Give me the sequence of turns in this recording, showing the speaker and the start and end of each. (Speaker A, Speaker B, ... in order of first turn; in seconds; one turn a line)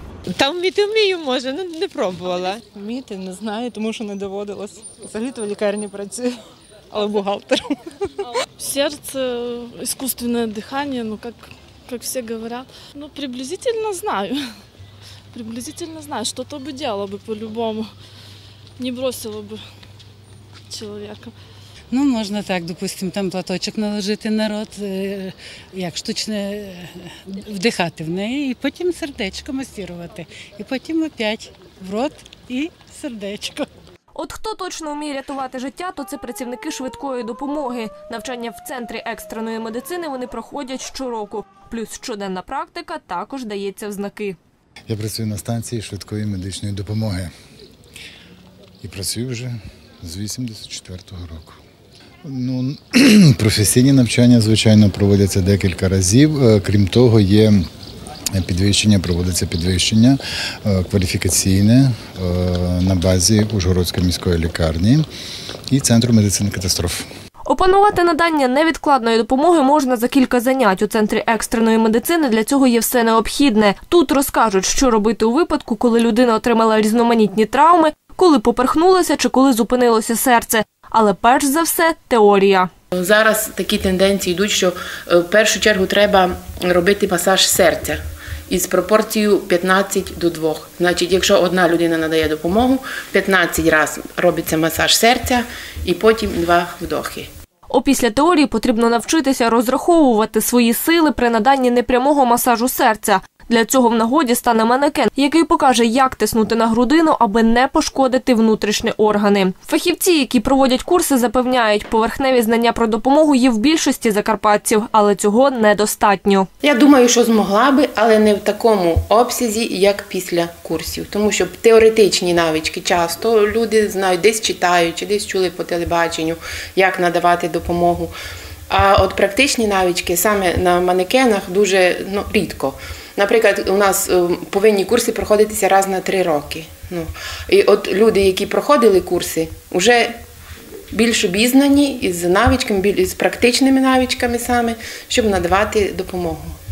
Speaker A: 0.3-2.7
Speaker B: 2.7-6.4
Speaker B: 6.9-7.9
Speaker C: 8.6-14.5
Speaker C: 15.3-17.9
Speaker C: 18.8-19.6
Speaker C: 20.7-21.3
Speaker D: 21.9-33.7
Speaker E: 34.1-44.4
Speaker F: 44.9-47.3
Speaker F: 48.8-51.6
Speaker F: 52.2-57.7
Speaker F: 58.3-65.1
Speaker F: 65.7-67.1
Speaker E: 67.5-82.7
Speaker G: 82.9-97.3
Speaker E: 97.7-116.5
Speaker G: 116.6-128.1
Speaker G: 128.7-140.2
Speaker G: 140.9-146.4